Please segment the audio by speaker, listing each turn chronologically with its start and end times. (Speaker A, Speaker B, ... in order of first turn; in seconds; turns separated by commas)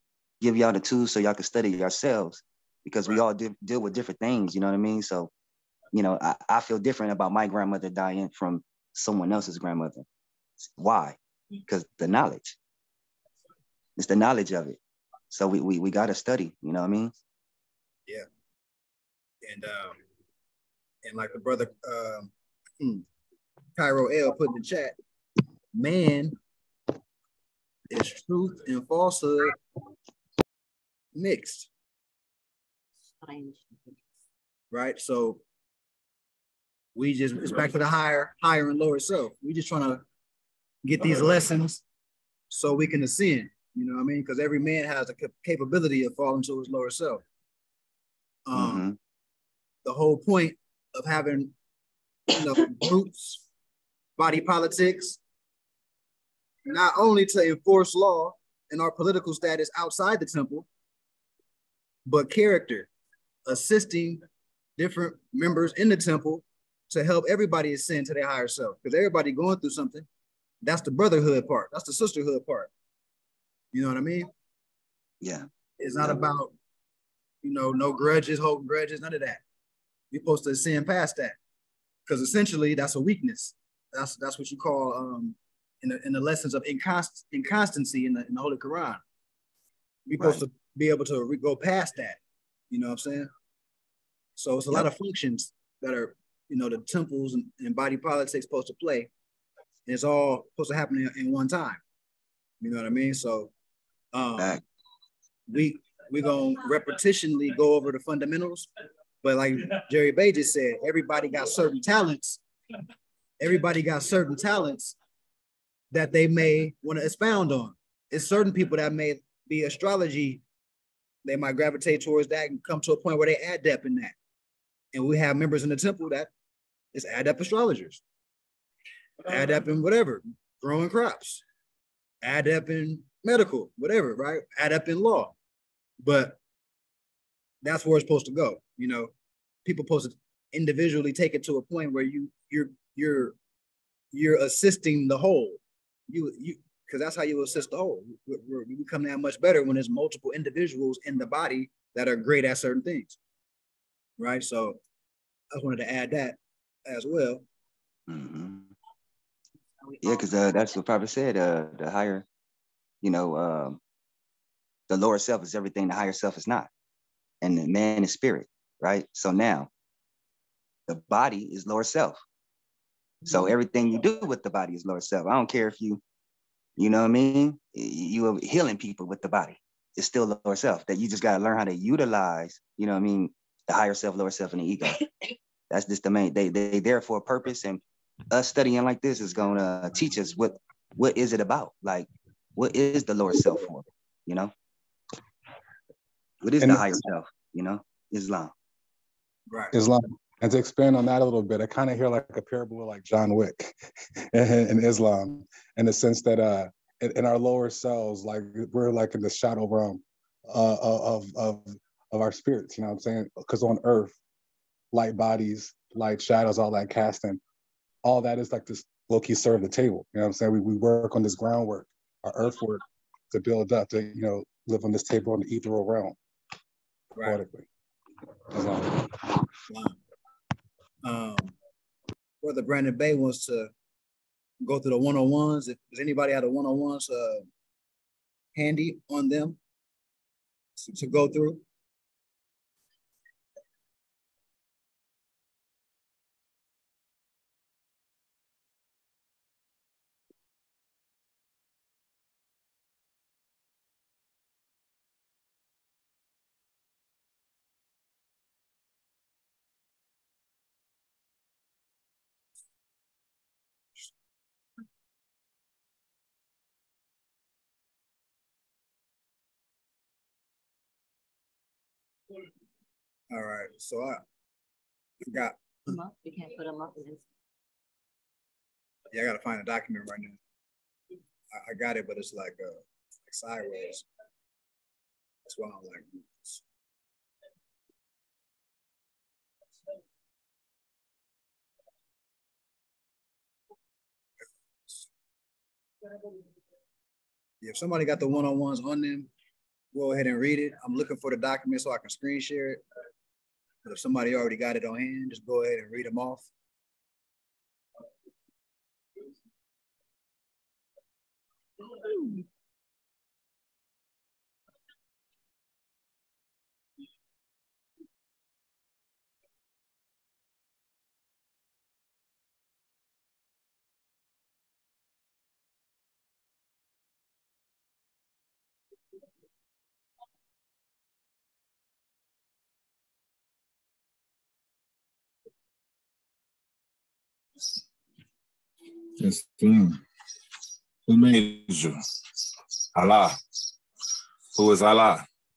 Speaker A: 0.4-5.3, Speaker A: 5.9-10.1, Speaker A: 10.8-12.6, Speaker A: 14.0-14.8, Speaker A: 15.3-17.1, Speaker B: 19.4-20.0, Speaker B: 21.1-23.1, Speaker B: 23.8-25.0, Speaker B: 25.7-26.4, Speaker B: 27.9-29.6, Speaker B: 31.1-31.7, Speaker C: 33.2-33.8, Speaker B: 34.7-35.4, Speaker B: 37.0-40.0, Speaker B: 40.8-41.8, Speaker B: 42.5-47.2, Speaker B: 48.5-48.9, Speaker A: 48.5-49.0, Speaker B: 49.9-51.5, Speaker B: 52.3-53.4, Speaker B: 54.2-55.2, Speaker B: 56.7-60.7, Speaker B: 62.1-62.9, Speaker B: 63.5-64.2, Speaker B: 64.8-70.1, Speaker B: 70.6-72.7, Speaker B: 73.7-74.3, Speaker A: 75.2-75.5, Speaker B: 75.8-76.5, Speaker B: 77.4-79.4, Speaker B: 80.1-81.4, Speaker B: 82.1-89.0, Speaker B: 90.1-92.2, Speaker B: 92.7-93.3, Speaker B: 94.4-99.1, Speaker B: 99.9-101.8, Speaker B: 102.6-103.5, Speaker B: 104.1-104.6, Speaker B: 105.5-108.7, Speaker B: 109.2-112.4, Speaker B: 113.4-115.0, Speaker B: 115.9-120.4, Speaker B: 121.2-124.2, Speaker B: 124.9-126.3, Speaker B: 126.9-128.0, Speaker B: 129.3-131.4, Speaker B: 132.2-135.3, Speaker B: 136.0-136.4, Speaker B: 137.6-139.1, Speaker B: 139.7-143.4, Speaker B: 144.1-153.2, Speaker B: 154.2-154.8, Speaker B: 155.5-157.4, Speaker A: 158.1-158.7, Speaker C: 159.8-160.6, Speaker A: 160.0-162.2, Speaker A: 163.0-163.8, Speaker A: 164.9-166.7, Speaker A: 167.4-169.7, Speaker A: 170.9-172.2, Speaker A: 173.3-176.0, Speaker A: 176.8-185.1, Speaker A: 185.7-194.5, Speaker A: 196.4-198.5, Speaker D: 196.6-196.9, Speaker B: 199.5-199.8, Speaker D: 199.7-203.7, Speaker D: 204.3-214.2, Speaker D: 214.9-217.4, Speaker D: 218.0-226.2, Speaker B: 227.2-227.4, Speaker D: 227.2-227.7, Speaker D: 228.5-229.2, Speaker B: 229.7-230.0, Speaker B: 231.0-231.5, Speaker B: 232.4-233.7, Speaker B: 234.6-237.5, Speaker B: 238.6-239.6, Speaker B: 240.8-241.6, Speaker B: 273.3-274.2, Speaker B: 275.2-275.6, Speaker C: 275.9-277.2, Speaker B: 279.1-280.4, Speaker B: 281.5-284.1, Speaker B: 285.5-286.6, Speaker B: 297.6-299.3, Speaker B: 299.9-302.8, Speaker B: 303.8-306.5, Speaker E: 339.2-339.9, Speaker E: 341.1-342.0, Speaker E: 342.9-343.4, Speaker E: 344.5-345.2